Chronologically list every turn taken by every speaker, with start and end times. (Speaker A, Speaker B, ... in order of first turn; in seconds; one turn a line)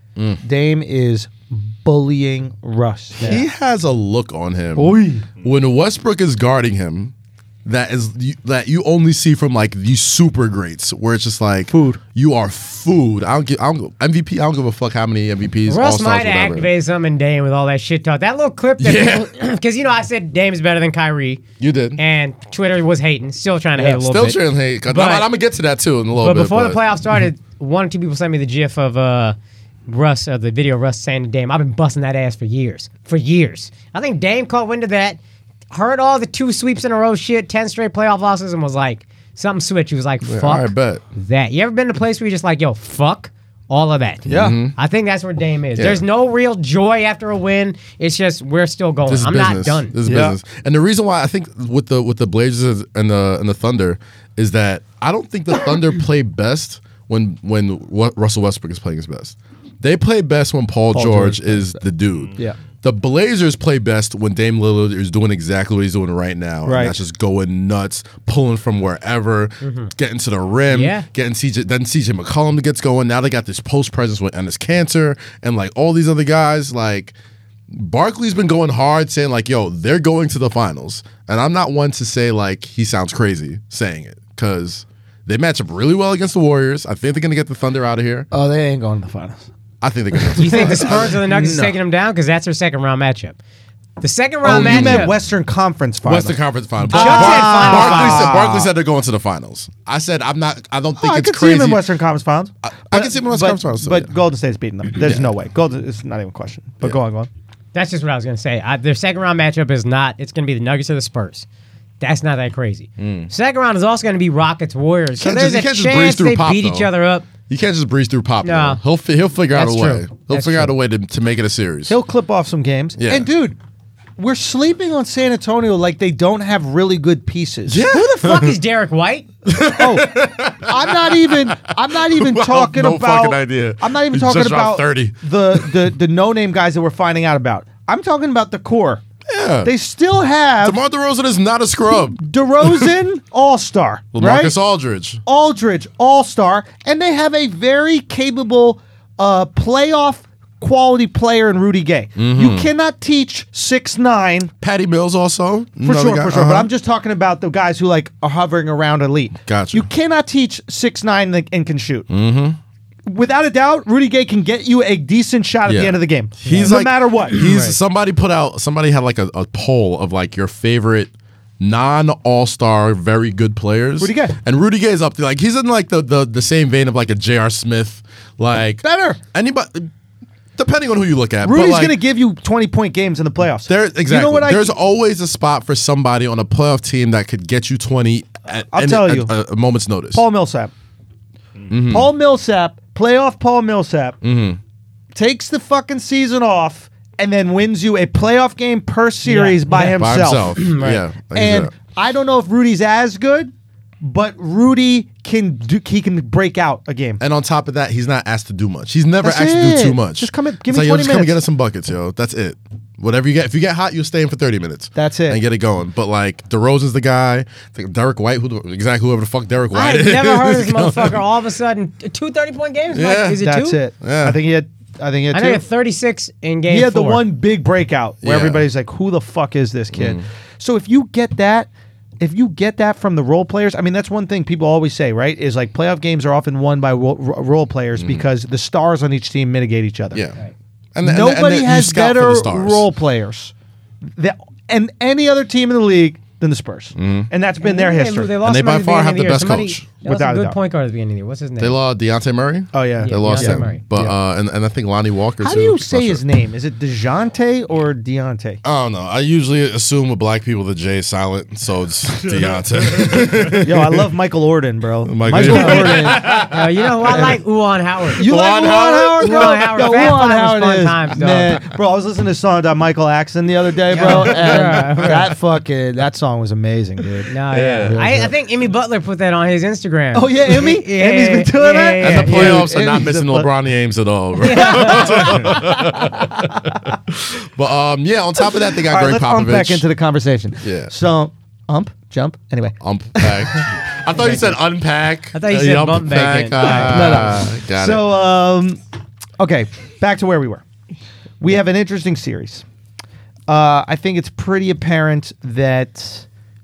Speaker A: 0.2-0.4
Speaker B: 0.4-3.5
Speaker A: 3.2-7.1
Speaker B: 4.8-5.3
Speaker A: 7.7-16.7
Speaker B: 11.7-12.0
Speaker C: 15.7-21.4
Speaker A: 18.8-19.3
Speaker A: 21.6-22.0
Speaker C: 22.0-25.3
Speaker A: 23.8-26.8
Speaker C: 26.2-29.4
Speaker C: 29.9-35.2
Speaker C: 35.7-49.9
Speaker A: 40.2-41.0
Speaker B: 44.3-44.6
Speaker A: 44.3-44.8
Speaker A: 45.8-46.0
Speaker A: 49.1-77.2
Speaker B: 50.0-50.4
Speaker B: 60.9-61.8
Speaker B: 66.7-67.0
Speaker C: 69.6-69.9
Speaker C: 70.7-71.1
Speaker A: 77.7-88.3
Speaker B: 88.3-89.5
Speaker A: 89.8-91.2
Speaker B: 90.1-91.8
Speaker C: 90.4-93.4
Speaker C: 94.0-95.1
Speaker B: 94.4-98.7
Speaker A: 94.5-95.1
Speaker A: 96.0-101.8
Speaker C: 96.9-98.4
Speaker B: 100.9-107.3
Speaker A: 102.7-104.1
Speaker A: 105.0-105.3
Speaker C: 107.7-111.5
Speaker C: 112.0-117.3
Speaker A: 113.0-113.3
Speaker A: 115.2-116.9
Speaker A: 117.5-122.0
Speaker C: 118.4-118.8
Speaker C: 119.5-120.7
Speaker B: 121.9-123.6
Speaker A: 123.0-123.3
Speaker B: 124.2-127.8
Speaker A: 127.7-128.6
Speaker C: 127.8-129.3
Speaker A: 129.4-135.7
Speaker B: 129.7-139.0
Speaker A: 139.3-139.7
Speaker B: 139.6-140.8
Speaker A: 140.6-142.9
Speaker B: 142.1-144.6
Speaker A: 144.1-145.2
Speaker B: 145.2-154.5
Speaker A: 152.2-152.7
Speaker A: 154.6-156.7
Speaker B: 155.8-162.1
Speaker A: 159.5-159.8
Speaker A: 162.1-162.6
Speaker B: 163.1-167.5
Speaker A: 165.7-179.9
Speaker C: 166.4-166.8
Speaker C: 167.4-167.8
Speaker B: 174.0-174.4
Speaker B: 178.8-179.2
Speaker A: 180.6-182.0
Speaker B: 181.4-184.7
Speaker A: 183.7-190.2
Speaker B: 188.7-189.3
Speaker B: 190.1-190.7
Speaker A: 191.7-192.1
Speaker B: 191.9-194.2
Speaker A: 194.2-194.6
Speaker B: 195.1-200.6
Speaker C: 199.2-201.1
Speaker A: 199.7-201.7
Speaker B: 201.3-207.2
Speaker A: 207.2-221.2
Speaker B: 209.2-211.4
Speaker B: 215.0-215.4
Speaker C: 219.7-223.8
Speaker A: 222.9-223.4
Speaker B: 223.4-225.6
Speaker A: 224.0-224.4
Speaker C: 225.3-227.2
Speaker B: 226.7-231.7
Speaker A: 228.2-228.7
Speaker A: 229.9-230.2
Speaker B: 232.2-240.2
Speaker A: 238.0-238.3
Speaker A: 240.1-240.4
Speaker A: 240.9-242.9
Speaker B: 241.0-248.3
Speaker A: 247.0-247.3
Speaker C: 247.6-251.8
Speaker A: 248.4-249.9
Speaker B: 250.0-250.6
Speaker A: 251.6-256.2
Speaker B: 252.7-254.2
Speaker C: 253.0-253.8
Speaker B: 255.4-258.6
Speaker A: 258.6-264.1
Speaker B: 263.6-266.4
Speaker A: 265.1-267.3
Speaker C: 265.4-268.3
Speaker A: 268.2-270.1
Speaker B: 268.2-277.3
Speaker C: 269.2-271.6
Speaker C: 273.9-275.3
Speaker A: 274.0-275.2
Speaker C: 277.3-282.7
Speaker A: 277.5-278.0
Speaker B: 277.8-278.3
Speaker B: 280.1-283.5
Speaker A: 282.0-289.9
Speaker C: 284.4-285.6
Speaker B: 284.4-286.8
Speaker B: 288.4-293.6
Speaker A: 290.6-290.9
Speaker A: 292.8-298.0
Speaker C: 294.2-294.5
Speaker B: 294.3-294.5
Speaker C: 295.3-297.3
Speaker B: 296.6-298.8
Speaker B: 299.4-300.6
Speaker B: 301.4-302.6
Speaker B: 303.5-306.3